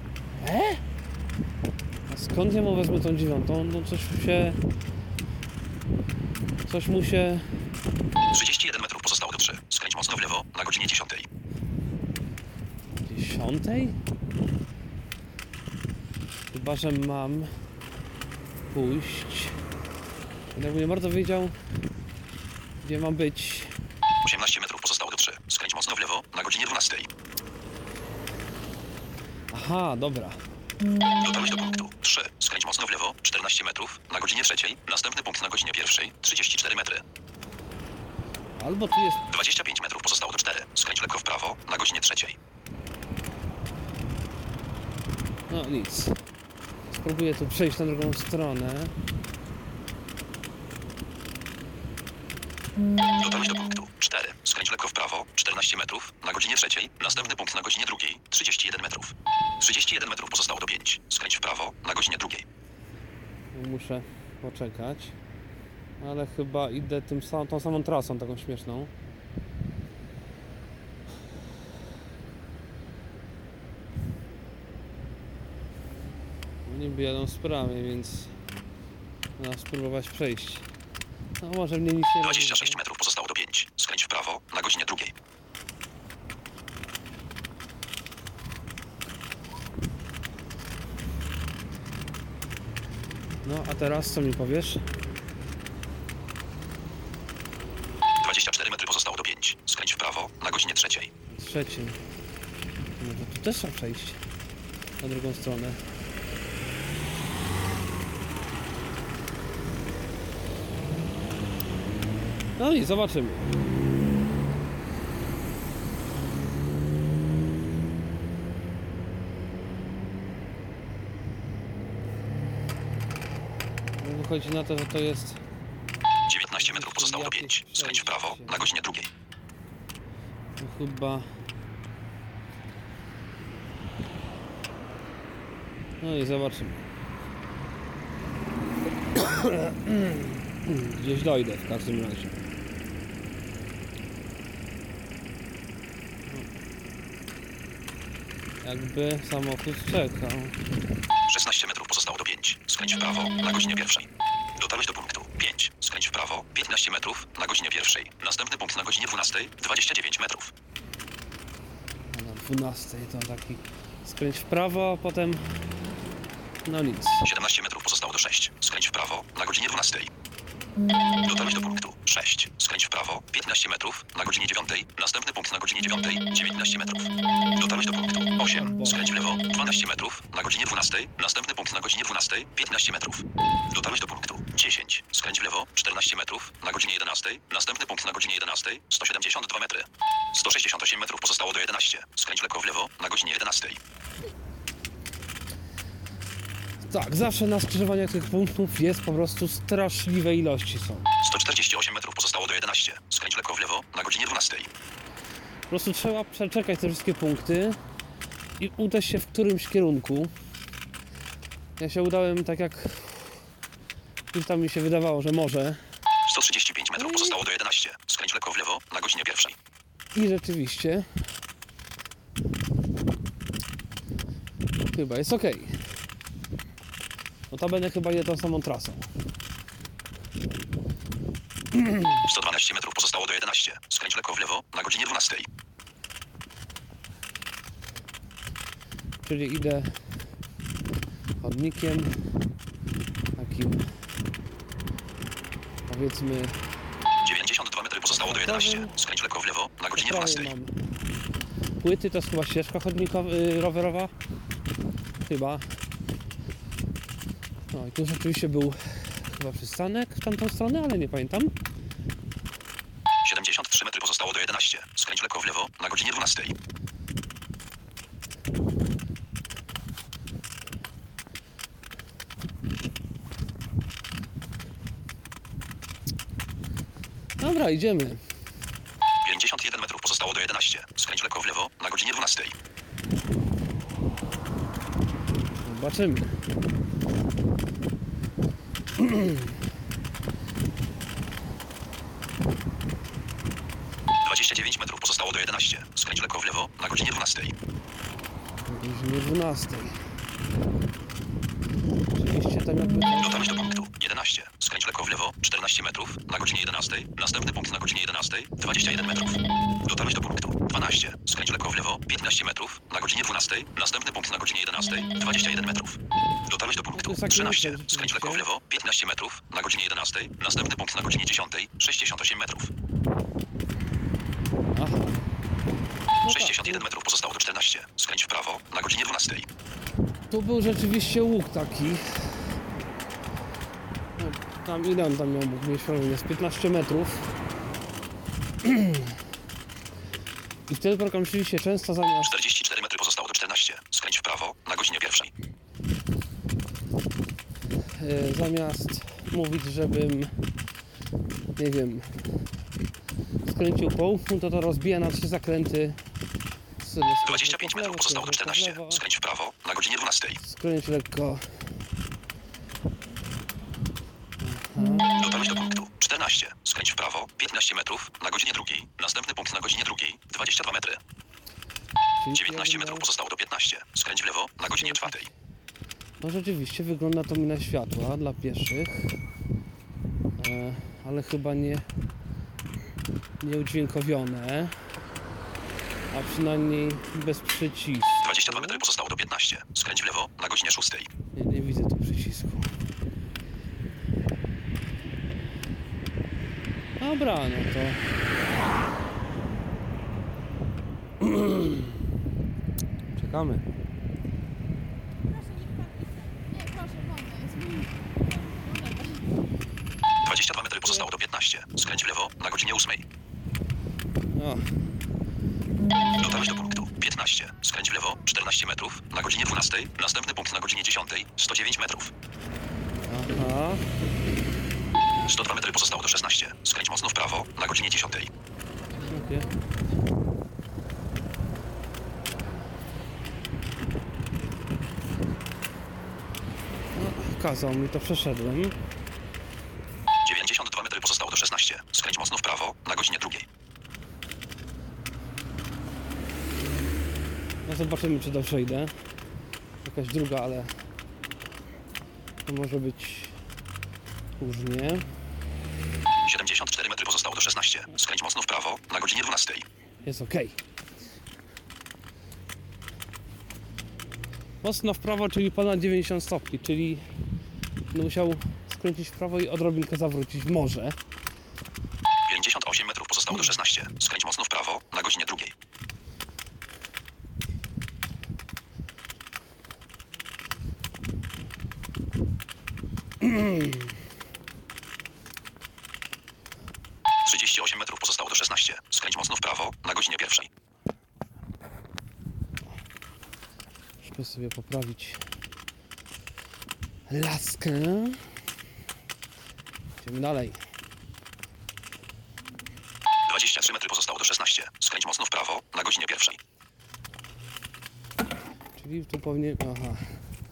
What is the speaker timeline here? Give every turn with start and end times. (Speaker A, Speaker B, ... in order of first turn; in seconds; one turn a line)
Speaker A: 0.3-0.8
Speaker A: 2.1-4.6
Speaker A: 6.7-7.6
Speaker B: 8.3-11.3
Speaker A: 13.0-14.0
Speaker A: 16.5-17.6
Speaker A: 18.7-19.6
Speaker A: 20.5-21.6
Speaker A: 22.8-23.8
Speaker B: 24.2-27.1
Speaker A: 29.5-30.5
Speaker B: 31.2-37.0
Speaker A: 38.6-39.2
Speaker B: 39.3-42.4
Speaker A: 45.5-46.2
Speaker A: 46.9-48.9
Speaker B: 53.2-62.4
Speaker A: 57.0-57.4
Speaker A: 63.5-65.2
Speaker A: 66.0-68.9
Speaker A: 76.7-78.3
Speaker A: 79.4-80.7
Speaker A: 81.4-82.8
Speaker B: 82.2-85.1
Speaker A: 93.4-94.9
Speaker B: 98.2-101.1
Speaker A: 101.3-102.0
Speaker A: 103.0-104.2
Speaker A: 105.0-105.8
Speaker A: 112.6-113.5
Speaker A: 124.0-125.4
Speaker B: 126.3-129.1
Speaker A: 126.5-128.6
Speaker A: 130.6-131.4
Speaker A: 136.0-136.8
Speaker A: 139.1-142.3
Speaker A: 148.6-150.6
Speaker B: 151.2-160.5
Speaker A: 162.1-165.6
Speaker A: 166.6-167.2
Speaker B: 167.2-170.1
Speaker B: 171.2-193.8
Speaker A: 178.4-179.2
Speaker A: 196.8-201.1
Speaker B: 201.2-204.7
Speaker A: 205.7-207.8
Speaker A: 208.6-210.3
Speaker A: 211.8-213.4
Speaker A: 214.3-215.9
Speaker B: 216.2-219.6
Speaker A: 216.9-217.4
Speaker A: 220.1-221.3
Speaker A: 224.9-226.0
Speaker A: 227.5-229.1
Speaker A: 231.8-232.1
Speaker B: 232.2-235.5
Speaker A: 239.2-240.3
Speaker A: 241.4-242.1
Speaker A: 243.3-244.0
Speaker A: 245.9-246.6
Speaker B: 247.2-250.5
Speaker A: 248.1-248.9
Speaker A: 249.9-250.7
Speaker A: 251.8-254.1
Speaker A: 255.2-255.8
Speaker A: 257.7-261.5
Speaker B: 263.2-266.5
Speaker A: 277.4-278.3
Speaker B: 279.2-282.5
Speaker A: 285.6-286.4
Speaker A: 289.0-289.4
Speaker B: 294.2-297.5
Speaker A: 298.6-300.1
Speaker A: 302.1-303.4
Speaker B: 303.2-322.7
Speaker A: 316.9-318.4
Speaker A: 324.7-325.3
Speaker A: 326.2-326.8
Speaker B: 326.3-329.4
Speaker A: 330.3-332.6
Speaker A: 334.2-337.3
Speaker A: 338.6-339.2
Speaker A: 340.7-342.3
Speaker B: 342.2-345.3
Speaker A: 347.8-350.5
Speaker A: 351.6-352.5
Speaker A: 353.4-356.0
Speaker A: 356.8-359.0
Speaker B: 357.2-360.4
Speaker A: 360.4-361.9
Speaker A: 364.4-365.1
Speaker B: 365.1-371.0
Speaker A: 372.2-373.1
Speaker B: 372.3-375.3
Speaker A: 374.7-375.2
Speaker A: 376.2-379.2
Speaker A: 380.4-381.9
Speaker A: 383.4-385.0
Speaker A: 386.1-388.8
Speaker B: 388.2-391.1
Speaker A: 391.3-392.7
Speaker A: 397.0-398.1
Speaker A: 401.2-401.9
Speaker A: 403.1-403.6
Speaker C: 405.4-409.4
Speaker B: 410.2-413.0
Speaker A: 414.3-414.9
Speaker B: 416.2-422.1
Speaker A: 423.1-423.8
Speaker B: 425.3-428.3
Speaker C: 429.0-429.6
Speaker A: 429.0-429.5
Speaker A: 436.9-438.7
Speaker B: 440.2-443.4
Speaker A: 447.6-449.2
Speaker A: 449.8-450.8
Speaker A: 452.4-453.4
Speaker A: 454.4-455.1
Speaker B: 456.2-459.6
Speaker A: 460.0-460.6
Speaker A: 464.6-467.1
Speaker A: 467.9-471.0
Speaker B: 472.3-475.5
Speaker A: 483.2-483.7
Speaker B: 487.2-490.5
Speaker A: 494.0-495.2
Speaker A: 497.1-498.4
Speaker A: 500.0-500.6
Speaker B: 503.3-506.4
Speaker A: 508.8-510.2